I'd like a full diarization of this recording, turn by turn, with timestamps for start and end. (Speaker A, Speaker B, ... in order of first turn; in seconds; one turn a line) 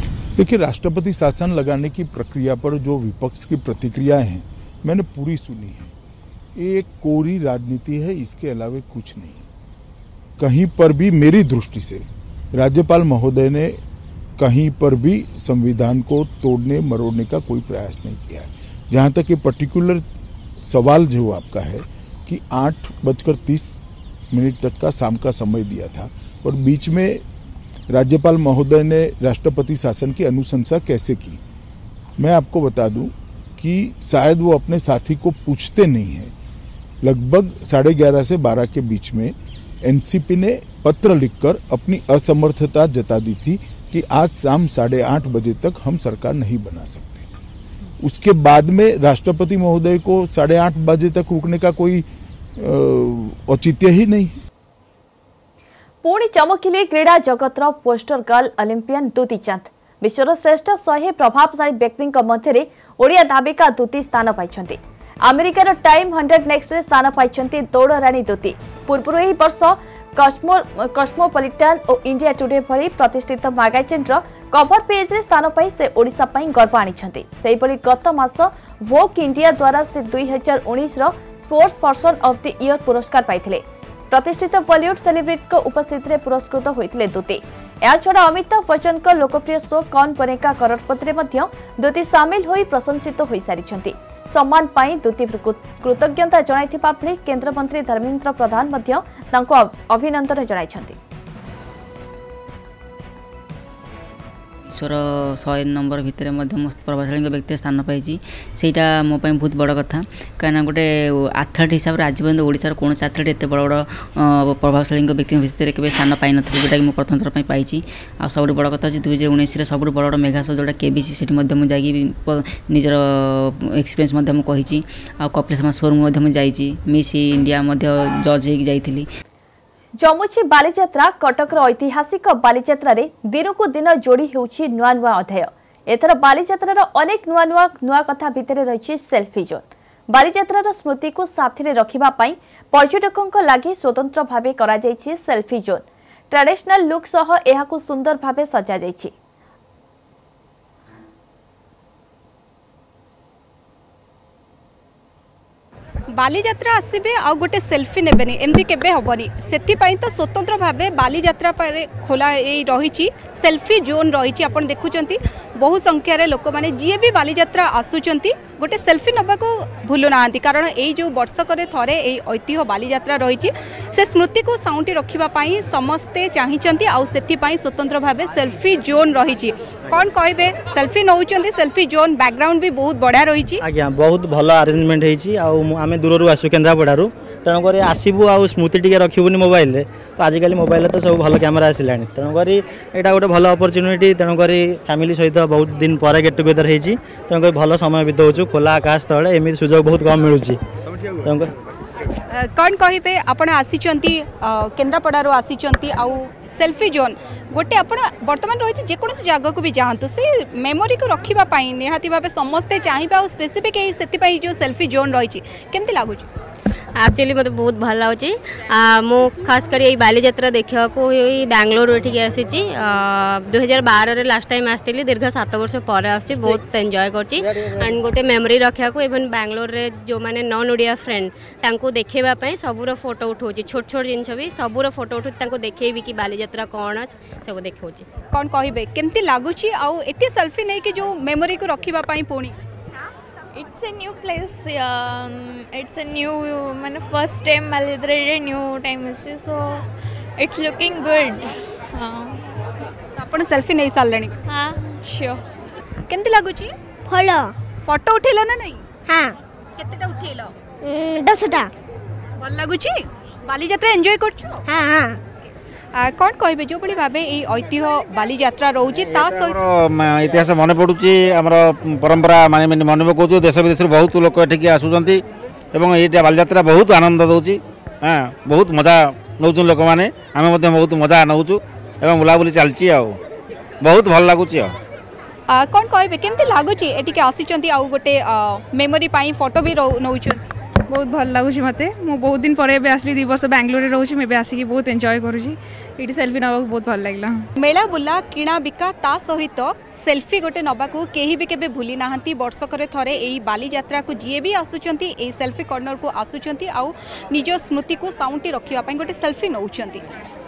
Speaker A: 0.3-5.9
Speaker A: 6.5-9.4
Speaker A: 10.4-13.8
Speaker A: 14.4-20.0
Speaker A: 20.6-23.8
Speaker A: 24.3-27.2
Speaker A: 27.9-31.4
Speaker A: 32.2-36.3
Speaker A: 37.0-47.2
Speaker A: 48.0-52.0
Speaker A: 52.6-54.4
Speaker B: 56.0-101.0
Speaker C: 104.7-129.1
Speaker B: 130.0-149.1
Speaker D: 156.1-183.6
Speaker E: 183.6-200.6
Speaker E: 201.2-201.5
Speaker D: 202.3-216.3
Speaker F: 217.0-238.1
Speaker D: 238.3-242.5
Speaker G: 243.5-249.8
Speaker G: 250.4-252.4
Speaker D: 253.2-254.3
Speaker G: 254.5-255.4
Speaker D: 256.1-256.7
Speaker H: 257.1-257.5
Speaker D: 257.9-258.8
Speaker H: 259.1-259.3
Speaker D: 259.8-260.5
Speaker H: 260.8-261.7
Speaker D: 262.4-264.6
Speaker H: 264.7-265.2
Speaker D: 265.9-269.6
Speaker I: 269.0-275.2
Speaker I: 275.7-283.2
Speaker I: 283.8-284.7
Speaker D: 285.5-290.5
Speaker G: 290.9-297.4
Speaker D: 297.6-310.0